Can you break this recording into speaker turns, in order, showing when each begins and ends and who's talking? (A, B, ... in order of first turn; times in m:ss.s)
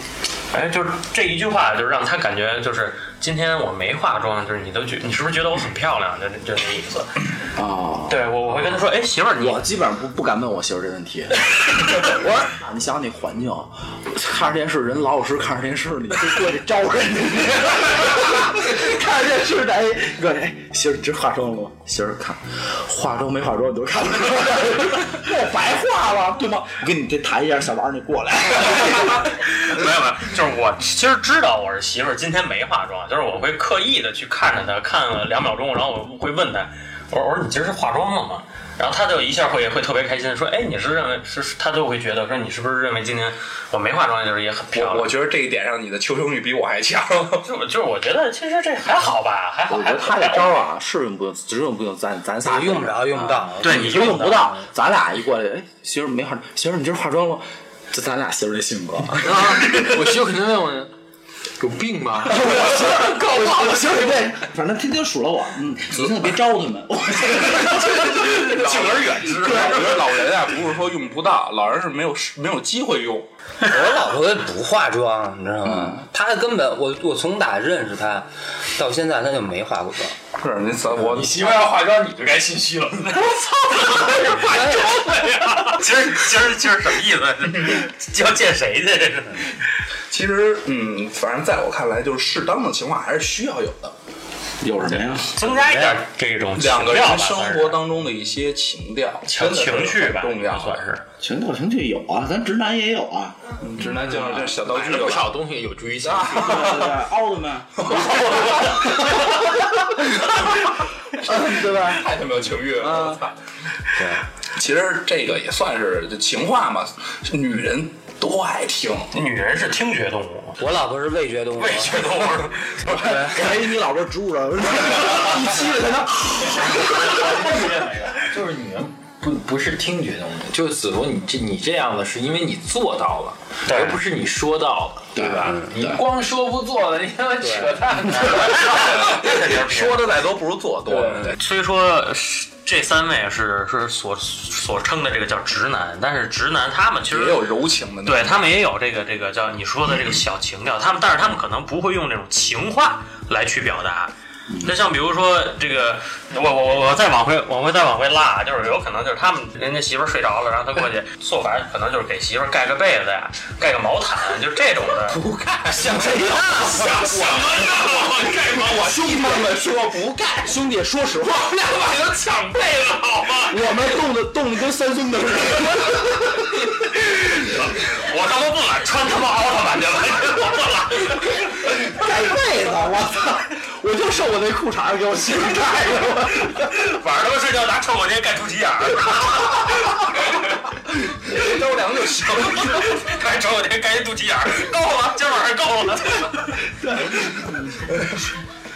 0:00.5-0:07.2 A
0:07.6-0:08.7 B
0:08.1-0:09.7 A
0:09.4-0:29.3 B
0:29.1-0:45.1 A
0:44.7-0:47.4 C
0:47.4-0:50.6 A
0:49.7-0:59.8 B
0:52.4-0:54.6 D
0:53.6-0:54.5 A
0:59.2-1:00.9 E
1:01.6-1:02.5 E
1:02.2-1:10.2 B
1:08.2-1:09.3 E
1:08.6-1:09.7 A
1:09.4-1:13.3 C
1:13.6-1:20.2 D
1:20.4-1:21.5 C
1:21.0-1:25.8 E
1:24.2-1:29.6 A
1:24.5-1:24.9 D
1:30.1-1:33.9 C
1:34.6-1:35.4 B
1:35.2-1:37.8 A
1:35.4-1:36.0 D
1:36.5-1:40.8 C
1:39.3-1:41.0 A
1:41.2-1:43.5 B
1:43.6-1:45.3 C
1:44.1-1:46.8 E
1:46.0-1:47.0 C
1:46.3-1:50.5 B
1:47.8-1:48.8 C
1:51.1-1:52.2 B
1:51.2-1:53.3 C
1:52.8-1:53.2 B
1:54.0-1:54.2 D
1:54.5-1:59.1 C
1:59.1-2:00.6 A
2:00.6-2:03.3 D
2:01.6-2:02.8 A
2:02.8-2:07.5 B
2:06.5-2:19.0 E
2:13.6-2:14.0 A
2:15.2-2:16.0 B
2:18.1-2:20.2 A
2:18.3-2:21.4 C
2:20.8-2:21.3 E
2:21.3-2:27.4 A
2:27.1-2:28.5 C
2:28.0-2:45.2 A
2:45.0-2:50.3 C
2:45.7-2:51.7 B
2:47.1-2:48.6 A
2:51.6-2:53.3 C
2:53.0-2:53.5 A
2:53.5-2:56.6 B
2:57.0-3:01.7 A
3:01.6-3:07.0 B
3:06.5-3:09.7 A
3:11.2-3:13.0 C
3:12.6-3:16.7 A
3:16.7-3:17.9 B